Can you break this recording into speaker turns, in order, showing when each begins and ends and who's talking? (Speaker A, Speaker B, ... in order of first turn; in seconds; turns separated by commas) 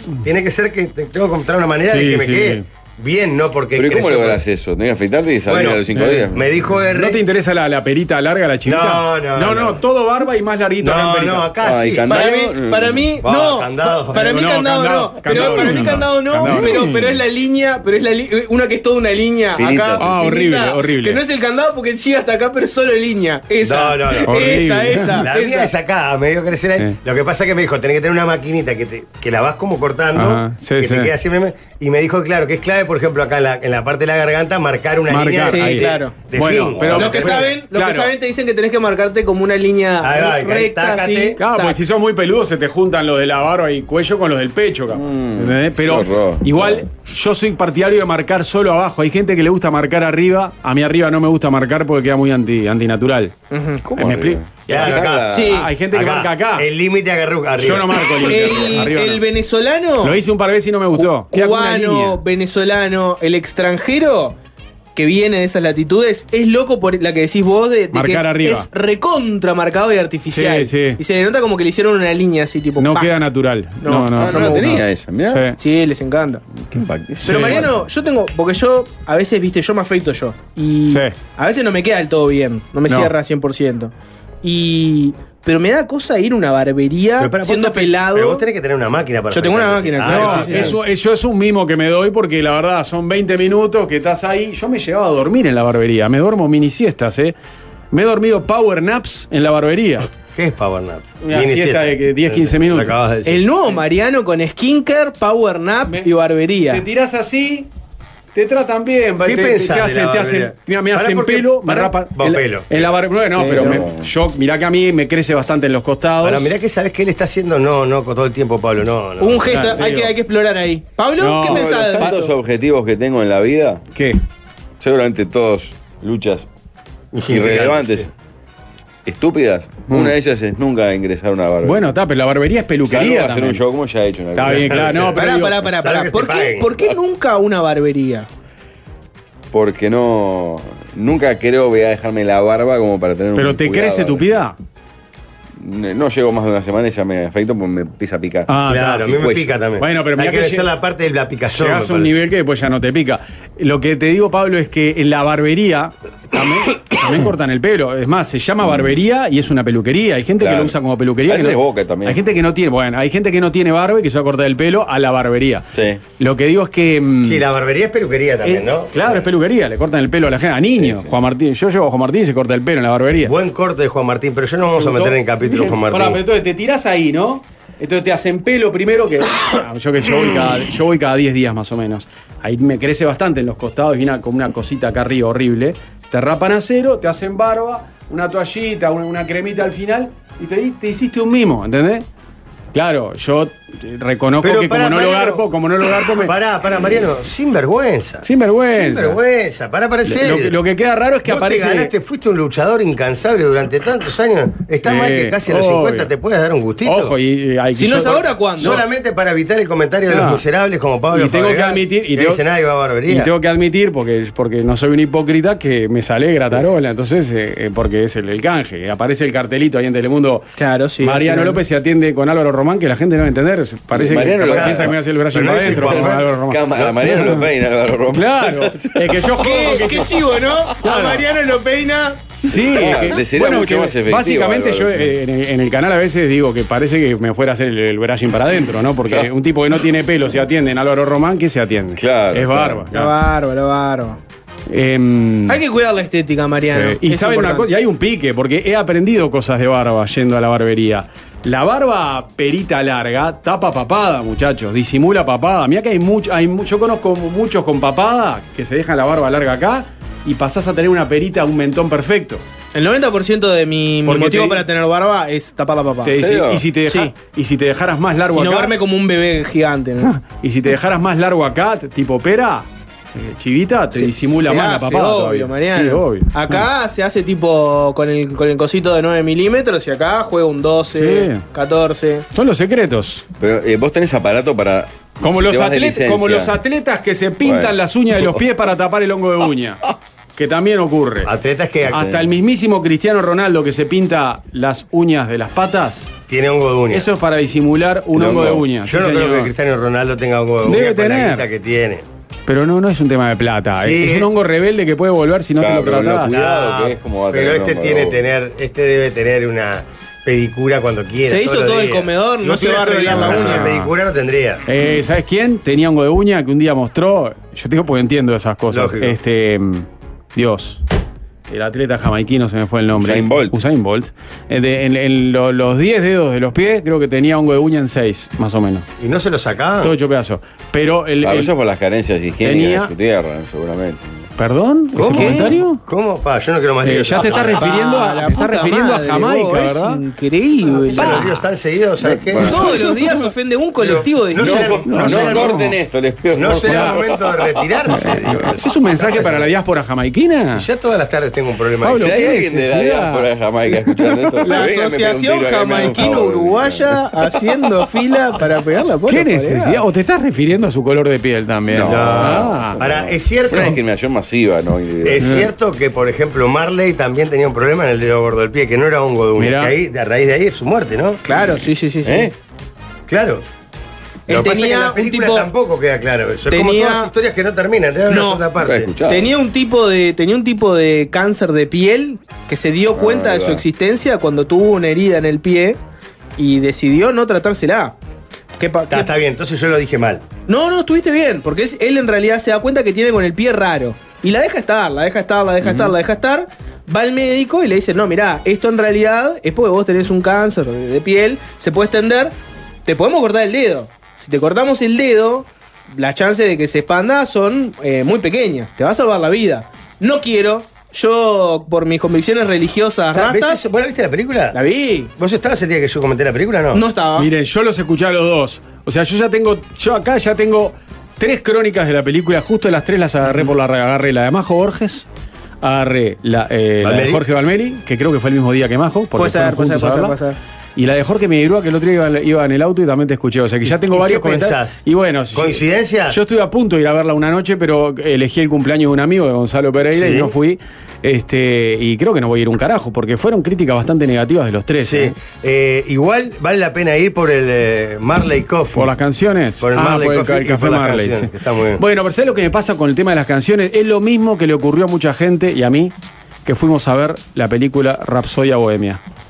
Speaker A: 0.2-4.4, Speaker B: 1.9-2.6, Speaker C: 3.8-6.5, Speaker A: 5.5-7.2, Speaker B: 5.9-6.3, Speaker B: 6.9-11.5, Speaker A: 8.6-9.8, Speaker A: 10.8-12.2, Speaker C: 11.6-13.1, Speaker D: 12.1-25.7, Speaker A: 13.2-14.4, Speaker B: 14.1-17.0, Speaker C: 19.6-20.1, Speaker B: 20.0-21.2, Speaker A: 23.6-37.5, Speaker B: 24.3-25.3, Speaker B: 30.1-31.1, Speaker B: 35.1-38.1, Speaker D: 35.5-36.1, Speaker D: 36.9-41.8, Speaker A: 40.0-41.4, Speaker B: 41.4-53.3, Speaker C: 44.9-46.9, Speaker D: 53.5-53.8, Speaker C: 53.9-55.6, Speaker B: 54.0-56.7, Speaker A: 54.7-58.8, Speaker D: 55.3-55.7, Speaker B: 57.6-59.2, Speaker D: 58.2-60.2, Speaker B: 60.0-62.2, Speaker D: 60.9-64.3, Speaker D: 65.0-73.1, Speaker B: 67.9-68.7, Speaker B: 70.3-71.0, Speaker B: 72.8-75.5, Speaker D: 73.8-74.8, Speaker C: 74.2-75.5, Speaker D: 75.6-76.4, Speaker C: 76.7-77.7, Speaker B: 77.2-77.7, Speaker D: 77.2-88.4, Speaker B: 80.9-81.1, Speaker A: 87.2-90.8, Speaker D: 89.3-90.8, Speaker B: 90.0-97.3, Speaker B: 97.9-100.1, Speaker A: 100.3-103.4, Speaker B: 101.2-102.9, Speaker D: 103.2-106.8, Speaker B: 106.7-107.7, Speaker B: 108.3-116.5, Speaker A: 109.2-112.9, Speaker D: 113.4-113.8, Speaker C: 113.4-114.1, Speaker A: 116.2-119.8, Speaker D: 119.2-122.3, Speaker B: 119.5-120.1, Speaker B: 121.2-122.2, Speaker C: 121.4-123.8, Speaker B: 123.9-124.2, Speaker C: 124.8-126.5, Speaker A: 127.1-128.1, Speaker C: 127.3-128.1, Speaker C: 129.0-131.9, Speaker B: 131.6-133.6, Speaker C: 132.8-135.2, Speaker B: 134.3-135.7, Speaker A: 134.4-135.1, Speaker D: 135.1-138.3, Speaker A: 135.8-136.8, Speaker C: 139.5-144.2, Speaker B: 143.3-144.6, Speaker C: 145.6-148.5, Speaker B: 148.5-149.2, Speaker A: 148.7-152.2, Speaker C: 149.1-149.5, Speaker B: 149.8-150.7, Speaker B: 151.6-165.7, Speaker C: 158.6-158.9, Speaker C: 160.4-160.7, Speaker C: 161.3-162.2, Speaker C: 165.7-166.0, Speaker B: 166.2-167.4, Speaker A: 167.2-169.2, Speaker B: 168.4-173.3, Speaker C: 170.7-171.1, Speaker A: 173.2-176.2, Speaker B: 174.8-192.0, Speaker B: 192.7-196.3, Speaker A: 194.4-200.6, Speaker B: 198.2-199.2, Speaker B: 200.1-201.9, Speaker A: 201.2-207.2, Speaker B: 204.8-206.1, Speaker B: 206.8-208.8, Speaker D: 207.7-208.8, Speaker A: 208.6-213.3, Speaker B: 210.1-210.4, Speaker B: 211.1-212.4, Speaker B: 213.1-220.5, Speaker D: 220.6-221.6, Speaker B: 221.0-227.4, Speaker C: 223.9-229.3, Speaker A: 224.4-227.0, Speaker B: 228.1-230.1, Speaker D: 229.4-232.2, Speaker B: 230.8-231.2, Speaker B: 232.4-243.1, Speaker C: 232.4-235.1, Speaker C: 242.0-242.9, Speaker D: 242.9-244.2, Speaker B: 244.7-245.6, Speaker D: 245.5-247.7, Speaker B: 246.7-262.4, Speaker D: 262.7-266.1, Speaker B: 264.1-264.6, Speaker B: 266.0-268.7, Speaker C: 266.1-266.6, Speaker D: 266.9-267.1, Speaker D: 268.3-270.1, Speaker B: 270.1-276.6, Speaker D: 273.9-282.3, Speaker B: 281.0-281.4, Speaker B: 282.3-283.2, Speaker C: 283.4-286.5, Speaker B: 285.2-289.8, Speaker C: 287.4-288.4, Speaker B: 290.4-291.3, Speaker A: 291.2-292.2, Speaker B: 291.9-296.1, Speaker A: 296.3-297.1, Speaker B: 296.9-299.5, Speaker C: 298.1-298.6, Speaker A: 298.8-302.0, Speaker B: 300.6-301.4, Speaker B: 302.5-306.4, Speaker A: 303.7-304.3, Speaker C: 305.6-308.2, Speaker A: 306.3-314.6, Speaker D: 311.2-313.6, Speaker B: 313.1-313.9, Speaker B: 314.7-320.8, Speaker A: 318.7-319.2, Speaker B: 321.5-328.9, Speaker C: 322.9-323.6, Speaker A: 329.0-329.9, Speaker B: 329.8-331.5, Speaker C: 331.2-334.3, Speaker B: 332.4-332.9, Speaker B: 334.4-335.8, Speaker A: 334.9-337.9, Speaker D: 335.0-335.5, Speaker B: 336.8-340.0, Speaker D: 337.2-341.2, Speaker A: 340.7-342.8, Speaker B: 340.9-341.3, Speaker C: 342.0-343.0, Speaker D: 342.4-344.8, Speaker A: 343.8-345.6, Speaker C: 344.4-349.4, Speaker B: 344.9-345.7, Speaker A: 346.3-349.5, Speaker B: 346.6-347.0, Speaker B: 347.9-350.6, Speaker A: 350.5-352.2, Speaker B: 351.8-353.3, Speaker C: 351.9-357.0, Speaker B: 353.9-354.6, Speaker D: 354.4-359.8, Speaker B: 359.1-362.8, Speaker C: 361.7-365.5, Speaker A: 361.8-363.8, Speaker A: 365.0-371.2, Speaker B: 369.4-369.7, Speaker D: 371.3-372.3, Speaker C: 372.0-372.3, Speaker A: 373.1-373.4, Speaker D: 374.3-375.5, Speaker A: 374.3-378.9, Speaker D: 376.5-377.1, Speaker D: 378.1-378.5, Speaker C: 378.6-379.3, Speaker D: 379.1-385.8, Speaker C: 382.9-383.6, Speaker D: 386.4-387.9, Speaker D: 388.6-389.1, Speaker A: 388.9-390.2, Speaker D: 390.5-402.3, Speaker D: 402.9-413.7, Speaker A: 413.1-414.6, Speaker D: 414.5-415.1, Speaker A: 415.2-416.8, Speaker D: 416.7-417.3, Speaker B: 417.1-425.0, Speaker B: 425.6-430.1, Speaker A: 426.8-427.2, Speaker D: 429.1-430.4, Speaker B: 430.8-445.1, Speaker A: 433.7-434.8, Speaker A: 435.3-436.2, Speaker A: 439.9-440.3, Speaker A: 444.8-448.9, Speaker B: 448.7-455.9, Speaker A: 449.6-451.8, Speaker B: 456.4-459.0